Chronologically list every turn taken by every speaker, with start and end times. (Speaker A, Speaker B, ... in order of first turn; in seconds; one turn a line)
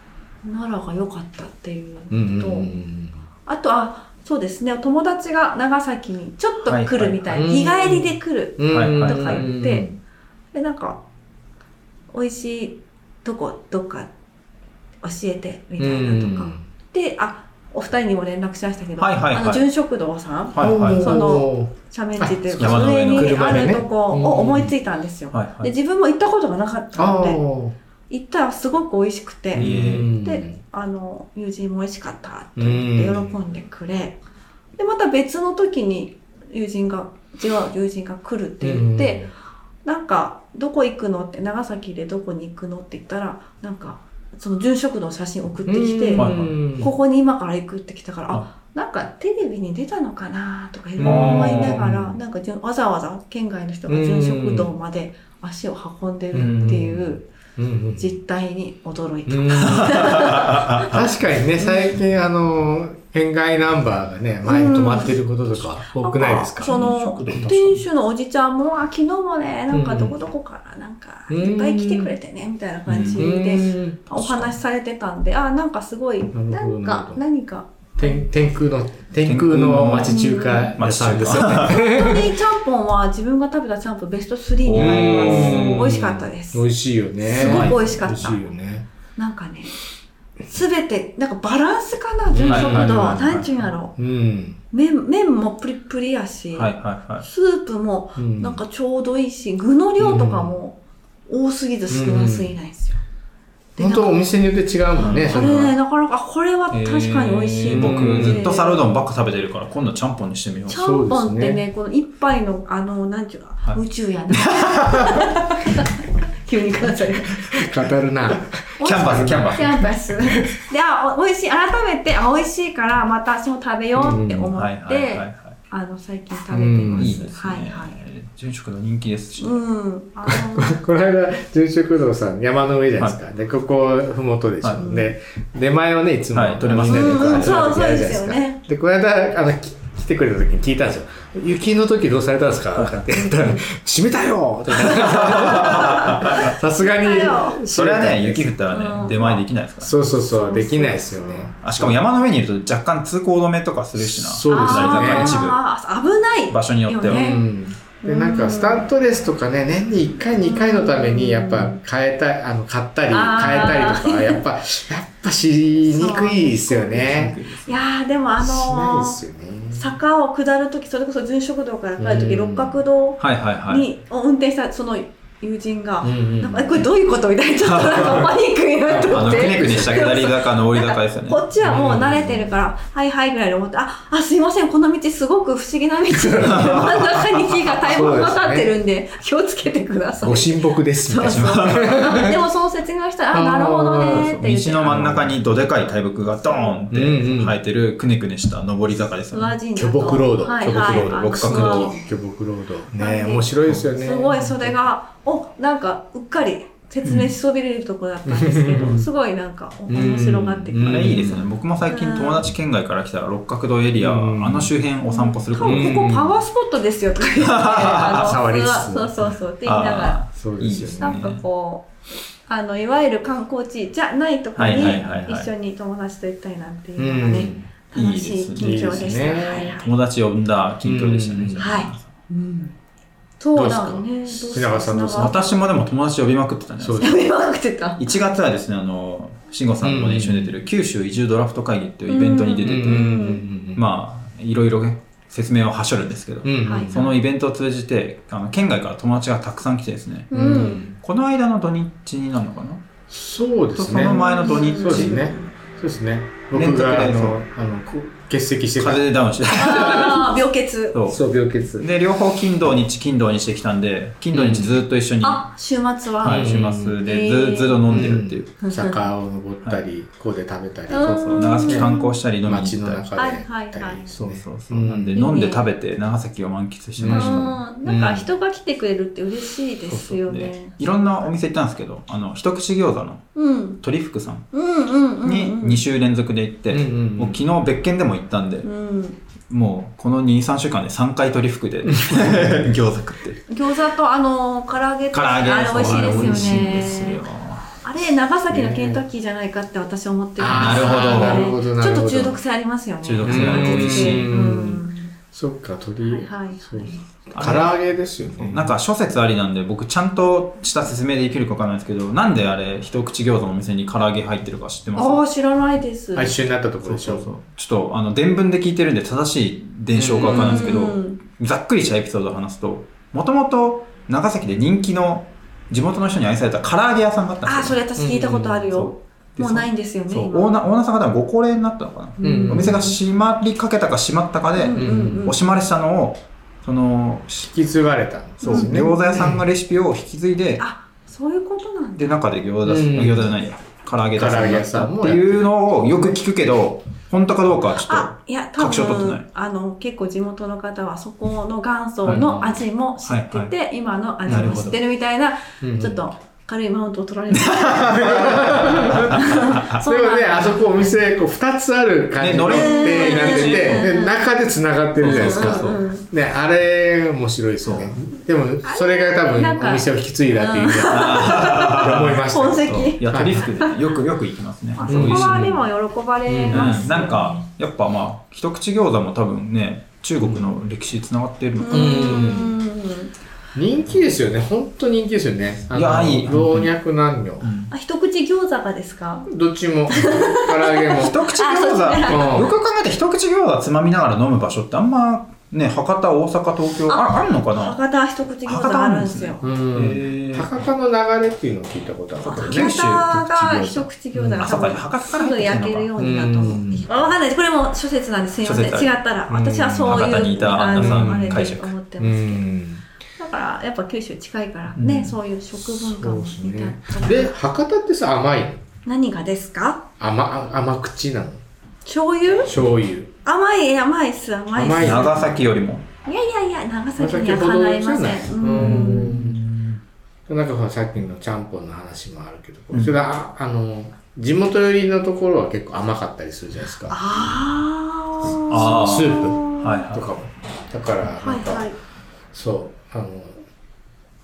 Speaker A: 0.4-2.7
Speaker B: 2.1-3.2
Speaker A: 3.5-9.9
Speaker C: 6.6-7.4
Speaker B: 7.3-10.0
Speaker C: 8.7-9.5
Speaker A: 10.5-11.0
Speaker A: 12.1-14.1
Speaker A: 15.0-27.4
Speaker B: 15.8-16.7
Speaker C: 19.0-19.7
Speaker C: 20.5-21.3
Speaker B: 20.6-24.7
Speaker C: 22.6-23.6
Speaker C: 25.3-25.7
Speaker B: 27.0-27.8
Speaker A: 28.1-34.2
Speaker C: 29.6-30.1
Speaker B: 29.6-30.6
Speaker B: 32.6-33.4
Speaker A: 34.8-39.3
Speaker B: 38.6-39.3
Speaker A: 39.8-57.3
Speaker B: 45.6-46.9
Speaker C: 46.2-46.5
Speaker B: 51.0-52.2
Speaker C: 51.0-51.9
Speaker B: 53.9-54.7
Speaker B: 56.3-58.2
Speaker C: 56.4-56.8
Speaker A: 58.0-61.0
Speaker B: 59.3-67.8
Speaker C: 59.8-60.9
Speaker A: 61.6-61.9
Speaker A: 64.5-65.2
Speaker A: 65.9-78.3
Speaker B: 69.7-70.2
Speaker B: 71.3-72.2
Speaker C: 72.9-73.3
Speaker B: 73.2-74.1
Speaker C: 74.2-74.5
Speaker B: 76.3-77.2
Speaker B: 78.0-82.3
Speaker C: 79.2-80.2
Speaker A: 80.0-80.8
Speaker C: 80.8-82.2
Speaker A: 81.5-86.7
Speaker C: 84.6-85.9
Speaker B: 84.7-88.9
Speaker A: 87.2-88.5
Speaker C: 87.3-87.8
Speaker A: 89.2-89.8
Speaker A: 90.5-94.0
Speaker B: 92.3-94.6
Speaker C: 92.5-93.5
Speaker A: 94.7-103.0
Speaker C: 96.5-97.2
Speaker B: 98.2-98.6
Speaker B: 100.0-100.5
Speaker B: 101.9-102.5
Speaker A: 103.8-104.2
Speaker B: 103.8-105.8
Speaker A: 105.0-109.0
Speaker C: 106.7-110.8
Speaker B: 107.7-108.5
Speaker A: 110.7-117.7
Speaker B: 110.8-111.6
Speaker C: 114.3-115.3
Speaker B: 117.3-120.5
Speaker A: 118.8-128.0
Speaker C: 118.8-119.8
Speaker B: 124.0-124.5
Speaker C: 124.5-125.5
Speaker B: 126.5-127.2
Speaker C: 127.0-129.6
Speaker A: 129.4-130.8
Speaker B: 130.3-148.6
Speaker C: 134.6-134.9
Speaker A: 134.8-135.1
Speaker C: 136.3-137.7
Speaker A: 136.9-138.6
Speaker C: 144.8-146.4
Speaker A: 145.3-147.6
Speaker C: 147.7-150.0
Speaker A: 148.7-149.4
Speaker B: 149.8-152.1
Speaker A: 150.3-151.5
Speaker C: 151.6-155.6
Speaker B: 153.9-155.4
Speaker A: 154.5-157.5
Speaker C: 156.5-157.3
Speaker B: 157.1-167.4
Speaker A: 158.0-158.9
Speaker A: 160.4-161.8
Speaker A: 163.1-164.4
Speaker A: 165.8-195.0
Speaker C: 167.1-167.8
Speaker B: 168.4-170.0
Speaker B: 172.0-172.8
Speaker C: 173.2-173.9
Speaker B: 176.0-176.9
Speaker C: 177.6-178.3
Speaker B: 178.9-179.9
Speaker C: 178.9-181.4
Speaker B: 181.6-182.6
Speaker B: 186.1-186.9
Speaker C: 186.4-187.7
Speaker B: 187.8-188.7
Speaker B: 190.2-192.4
Speaker C: 191.2-192.3
Speaker B: 193.3-194.3
Speaker C: 193.9-199.6
Speaker B: 194.8-195.4
Speaker B: 196.9-197.6
Speaker A: 199.3-202.0
Speaker B: 199.8-204.8
Speaker C: 200.8-202.0
Speaker A: 203.0-211.2
Speaker B: 208.3-209.1
Speaker B: 209.9-211.5
Speaker C: 210.8-216.0
Speaker A: 211.8-212.5
Speaker B: 214.0-214.7
Speaker A: 215.1-220.2
Speaker B: 215.6-216.4
Speaker C: 217.3-218.4
Speaker B: 218.1-219.3
Speaker C: 219.6-221.4
Speaker B: 220.3-221.2
Speaker A: 221.0-221.9
Speaker A: 222.5-229.9
Speaker C: 224.6-225.5
Speaker B: 227.0-227.7
Speaker C: 227.9-232.1
Speaker B: 228.6-229.8
Speaker B: 230.8-231.8
Speaker A: 231.6-232.7
Speaker A: 233.4-235.5
Speaker B: 233.5-235.4
Speaker C: 234.9-237.2
Speaker B: 236.8-237.2
Speaker A: 237.0-238.1
Speaker C: 238.0-243.1
Speaker B: 239.8-240.6
Speaker A: 242.1-243.4
Speaker B: 242.6-243.8
Speaker C: 243.8-250.3
Speaker B: 246.4-247.1
Speaker A: 246.7-246.9
Speaker A: 250.3-250.8
Speaker B: 250.3-251.0
Speaker C: 251.0-252.8
Speaker B: 253.1-259.1
Speaker C: 253.8-255.3
Speaker A: 253.9-255.5
Speaker C: 256.5-257.4
Speaker C: 258.8-260.4
Speaker A: 259.6-261.0
Speaker C: 260.9-261.2
Speaker B: 261.1-261.9
Speaker C: 261.8-265.5
Speaker B: 264.3-264.8
Speaker A: 265.2-267.9
Speaker C: 266.2-268.6
Speaker B: 266.2-267.0
Speaker B: 267.9-271.1
Speaker A: 268.6-269.1
Speaker A: 270.9-272.2
Speaker C: 271.0-273.1
Speaker B: 271.6-275.2
Speaker A: 273.2-274.1
Speaker C: 274.2-277.6
Speaker A: 275.1-275.7
Speaker B: 277.0-278.3
Speaker A: 277.1-280.8
Speaker C: 279.9-284.5
Speaker A: 283.4-283.8
Speaker A: 284.5-285.8
Speaker C: 285.2-288.7
Speaker B: 286.7-287.4
Speaker A: 288.6-289.2
Speaker C: 289.5-293.5
Speaker A: 293.5-297.2
Speaker C: 295.1-297.7
Speaker B: 295.8-296.5
Speaker A: 297.8-305.1
Speaker B: 298.5-299.0
Speaker B: 300.4-302.4
Speaker C: 300.5-301.5
Speaker C: 303.0-304.4
Speaker B: 303.2-308.7
Speaker A: 306.0-307.0
Speaker C: 307.4-307.8
Speaker C: 308.4-315.2
Speaker A: 314.9-316.3
Speaker B: 316.1-317.3
Speaker C: 316.8-327.8
Speaker B: 319.9-320.9
Speaker A: 320.2-321.2
Speaker A: 327.4-330.5
Speaker B: 328.0-328.7
Speaker C: 328.7-337.4
Speaker A: 332.2-332.9
Speaker B: 332.2-332.9
Speaker A: 334.6-335.4
Speaker B: 334.7-335.3
Speaker B: 337.3-339.4
Speaker C: 338.4-340.6
Speaker A: 338.4-338.8
Speaker A: 340.6-342.2
Speaker C: 342.0-349.2
Speaker B: 342.6-343.4
Speaker B: 344.1-346.2
Speaker A: 347.9-360.9
Speaker B: 352.1-352.7
Speaker C: 353.0-353.5
Speaker C: 354.3-354.8
Speaker B: 354.3-354.7
Speaker B: 355.6-356.1
Speaker C: 357.4-359.6
Speaker B: 357.9-373.5
Speaker C: 362.2-363.9
Speaker A: 362.5-364.2
Speaker A: 365.0-366.1
Speaker C: 365.0-365.9
Speaker C: 367.6-367.9
Speaker A: 368.6-373.7
Speaker C: 370.9-375.6
Speaker A: 374.8-377.5
Speaker B: 374.9-375.6
Speaker B: 376.3-376.8
Speaker C: 376.5-382.1
Speaker B: 380.2-380.6
Speaker A: 381.6-383.1
Speaker B: 381.7-382.6
Speaker B: 383.6-387.5
Speaker C: 385.7-386.7
Speaker C: 387.4-387.7
Speaker A: 387.7-389.3
Speaker B: 389.3-391.2
Speaker A: 389.9-392.4
Speaker C: 391.0-397.8
Speaker B: 392.1-392.6
Speaker A: 396.9-399.5
Speaker C: 398.5-400.5
Speaker B: 399.4-404.8
Speaker C: 402.2-403.2
Speaker A: 402.2-412.4
Speaker C: 404.4-405.9
Speaker B: 406.0-406.9
Speaker C: 408.4-408.9
Speaker B: 409.3-412.8
Speaker C: 409.9-411.7
Speaker A: 413.2-417.3
Speaker C: 414.8-415.2
Speaker B: 415.6-418.6
Speaker A: 418.9-419.9
Speaker B: 420.0-421.4
Speaker A: 421.9-422.6
Speaker B: 422.5-423.1
Speaker A: 423.2-425.2
Speaker B: 424.5-425.4
Speaker C: 424.8-425.9
Speaker A: 426.1-429.1
Speaker B: 427.0-429.4
Speaker C: 428.6-429.8
Speaker B: 430.3-437.0
Speaker A: 436.9-439.9
Speaker B: 438.2-441.7
Speaker C: 438.5-440.2
Speaker A: 441.2-441.8
Speaker B: 442.3-443.4